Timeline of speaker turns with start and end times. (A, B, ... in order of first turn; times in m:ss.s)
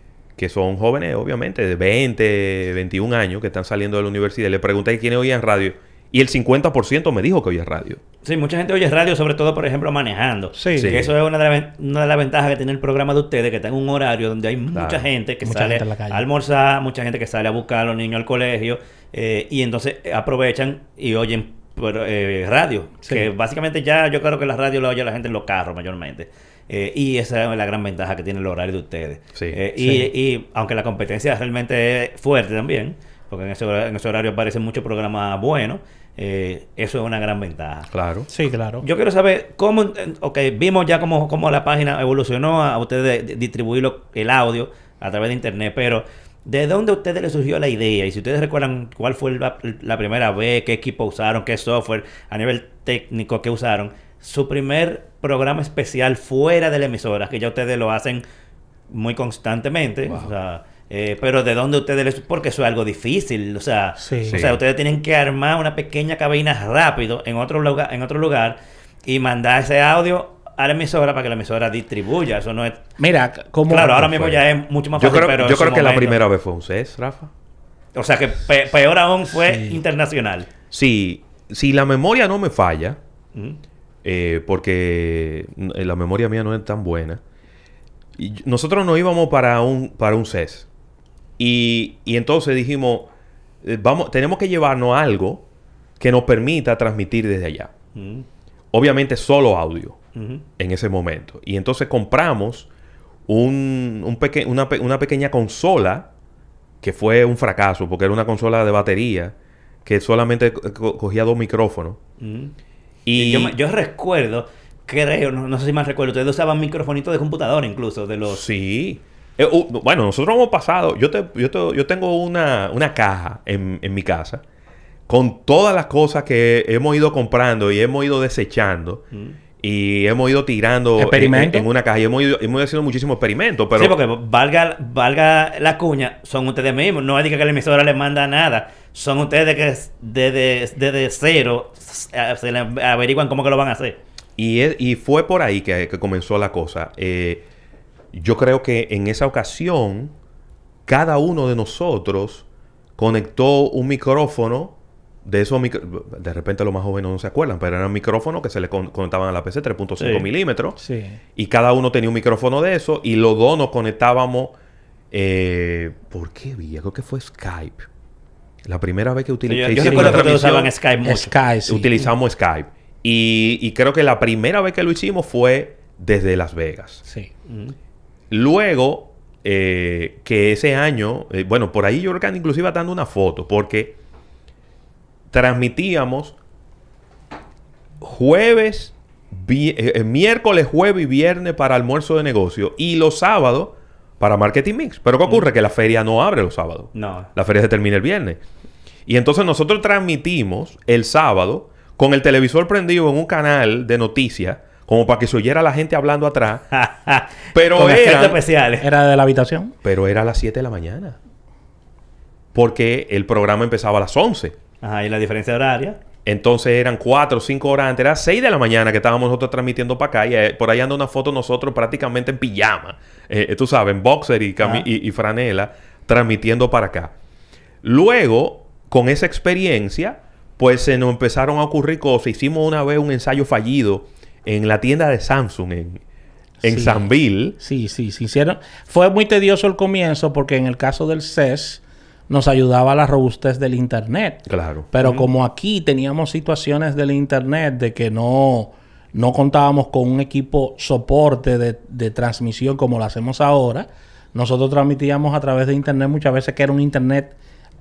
0:00.4-0:08.0 A
0:08.2-0:37.9 B
0:10.5-0:11.0 C
0:10.7-0:11.1 A
0:14.7-0:15.0 A
0:15.4-0:16.2 C
0:29.3-0:29.6 A
0:29.8-0:30.1 C
0:37.9-0:38.3 A
0:38.3-0:38.8 C
0:38.8-0:58.2 B
0:58.9-1:12.8 B
1:04.0-1:04.4 C
1:04.3-1:04.6 A
1:13.0-1:14.0 C
1:13.7-1:16.2 B
1:13.8-1:14.4 A
1:15.0-1:17.3 A
1:17.9-1:20.5 B
1:19.4-1:19.8 C
1:20.7-1:23.0 A
1:24.0-1:27.2 A
1:28.2-1:30.7 A
1:31.4-1:33.1 A
1:33.6-1:35.4 A
1:36.0-1:37.7 A
1:37.9-1:38.2 B
1:38.7-1:40.0 A
1:40.1-1:40.4 B
1:40.6-1:42.7 A
1:43.3-1:46.1 A
1:46.8-1:52.0 A
1:52.2-1:52.5 B
1:53.0-1:53.6 A
1:53.2-1:58.4 B
1:58.2-2:04.4 A
2:05.1-2:09.0 A
2:09.6-2:14.0 A
2:11.0-2:11.7 C
2:13.8-2:24.0 B
2:24.4-2:27.4 A
2:28.1-2:30.1 A
2:30.9-2:32.4 A
2:33.0-2:40.8 A
2:40.0-2:40.2 B
2:40.8-2:41.2 C
2:41.4-2:44.5 A
2:45.1-2:47.9 A
2:48.6-2:50.7 A
2:49.5-2:51.3 B
2:49.8-2:50.4 C
2:51.0-2:51.9 C
2:51.7-2:57.0 A
2:57.5-2:57.7 B
2:58.3-3:04.0 A
3:05.3-3:06.4 A
3:08.0-3:18.4 A
3:16.9-3:17.3 B
3:19.0-3:26.7 A
3:26.7-3:28.9 B
3:27.5-3:28.4 A
3:28.8-3:29.8 C
3:29.8-3:31.2 A
3:32.5-3:34.6 A
3:34.8-3:36.0 B
3:36.2-3:47.1 A
3:44.6-3:44.8 B
3:47.8-3:56.0 A
3:56.6-3:57.6 A
3:56.6-4:17.4 C
4:04.4-4:04.9 A